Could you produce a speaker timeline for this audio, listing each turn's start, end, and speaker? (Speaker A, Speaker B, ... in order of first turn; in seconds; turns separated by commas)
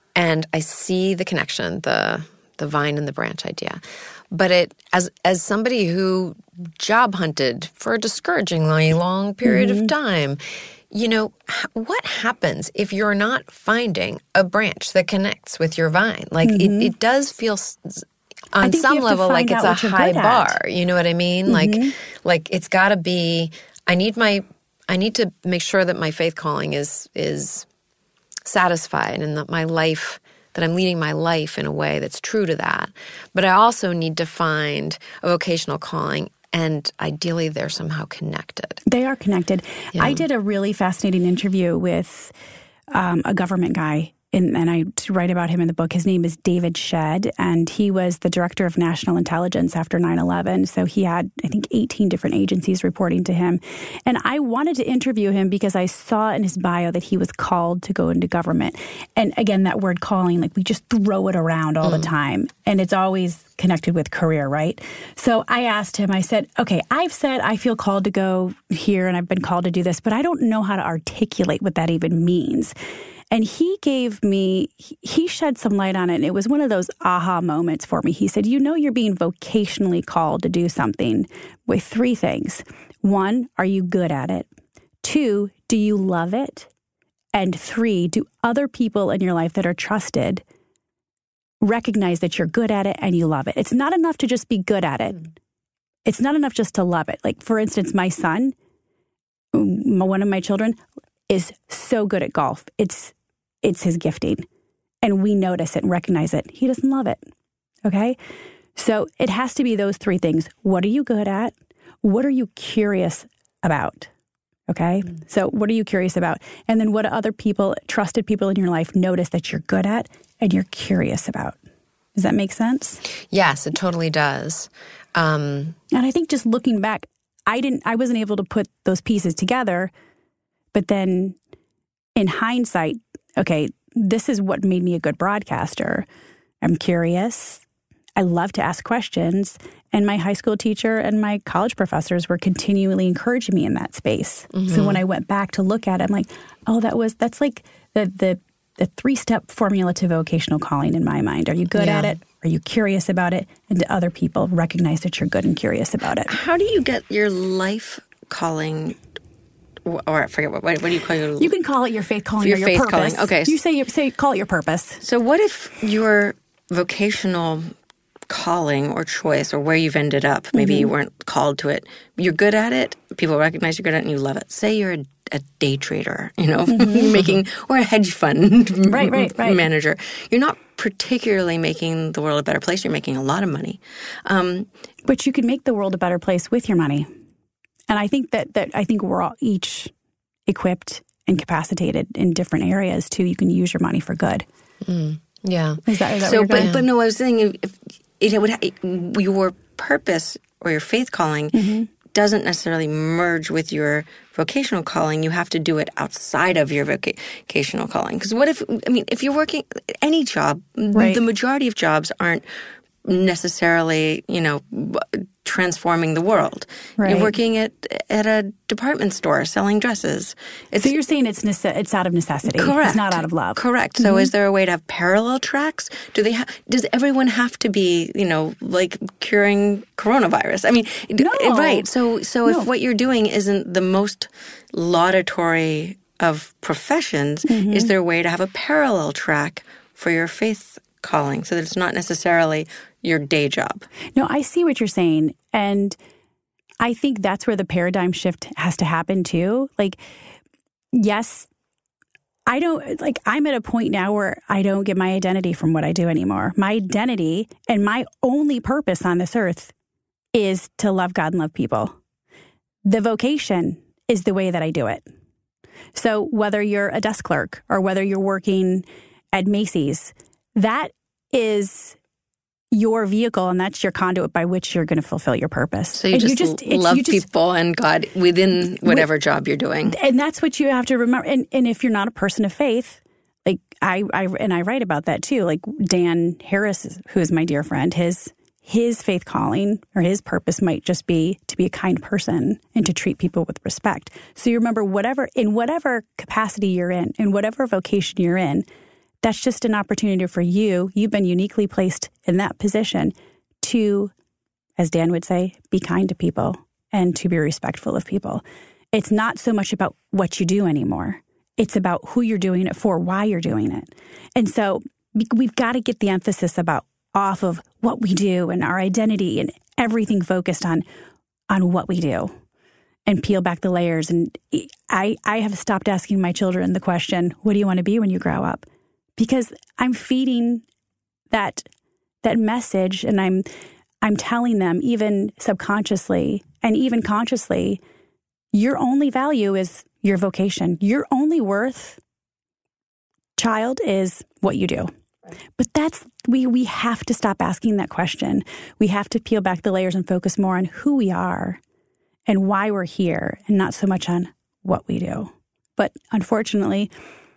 Speaker A: 0.1-27.6, Speaker B: 9.4-9.9, Speaker B: 16.4-16.9, Speaker B: 18.6-20.6, Speaker B: 21.4-21.9, Speaker A: 28.4-38.8, Speaker B: 38.9-42.3, Speaker A: 39.9-40.2, Speaker B: 42.9-72.7, Speaker A: 61.8-62.1, Speaker B: 73.3-84.5, Speaker B: 85.0-86.7, Speaker B: 87.3-90.4, Speaker B: 91.6-95.2, Speaker B: 96.0-98.5, Speaker B: 99.5-104.5, Speaker B: 105.0-107.2, Speaker B: 107.8-108.2, Speaker B: 108.8-114.1, Speaker B: 114.7-121.6, Speaker B: 122.1-123.0, Speaker A: 123.3-125.8, Speaker B: 125.9-129.9, Speaker B: 130.7-131.4, Speaker B: 132.2-136.1, Speaker B: 136.6-137.6, Speaker B: 138.2-156.3, Speaker A: 144.5-145.0, Speaker A: 151.8-152.1, Speaker C: 156.3-159.0, Speaker C: 159.8-161.5, Speaker B: 161.4-165.0, Speaker C: 162.4-163.5, Speaker C: 165.0-167.7, Speaker C: 168.3-184.7, Speaker B: 170.5-170.9, Speaker B: 176.7-177.2, Speaker B: 178.8-179.7, Speaker B: 185.0-187.1, Speaker B: 187.9-189.9, Speaker B: 190.5-194.4, Speaker A: 194.8-195.8, Speaker B: 195.8-196.7, Speaker C: 196.2-212.4, Speaker A: 196.6-196.8, Speaker B: 201.5-201.9, Speaker B: 210.9-211.2, Speaker C: 213.0-220.9, Speaker B: 217.0-217.3, Speaker B: 220.7-224.3, Speaker C: 222.5-243.9, Speaker B: 231.2-231.9, Speaker B: 237.5-237.9, Speaker B: 244.2-246.0, Speaker B: 246.8-250.0, Speaker B: 250.9-251.5, Speaker B: 252.5-259.7, Speaker B: 260.3-261.9, Speaker B: 262.8-265.0, Speaker B: 265.9-272.0, Speaker B: 272.7-277.2, Speaker C: 275.9-280.0, Speaker B: 279.9-298.6, Speaker B: 299.2-304.1, Speaker B: 304.8-320.8, Speaker B: 321.5-322.3, Speaker B: 323.1-328.6, Speaker B: 329.2-330.6, Speaker B: 331.3-331.7, Speaker B: 332.2-333.4, Speaker B: 334.0-337.8, Speaker B: 338.5-342.0, Speaker B: 343.4-344.9, Speaker B: 345.6-351.6, Speaker B: 352.3-356.9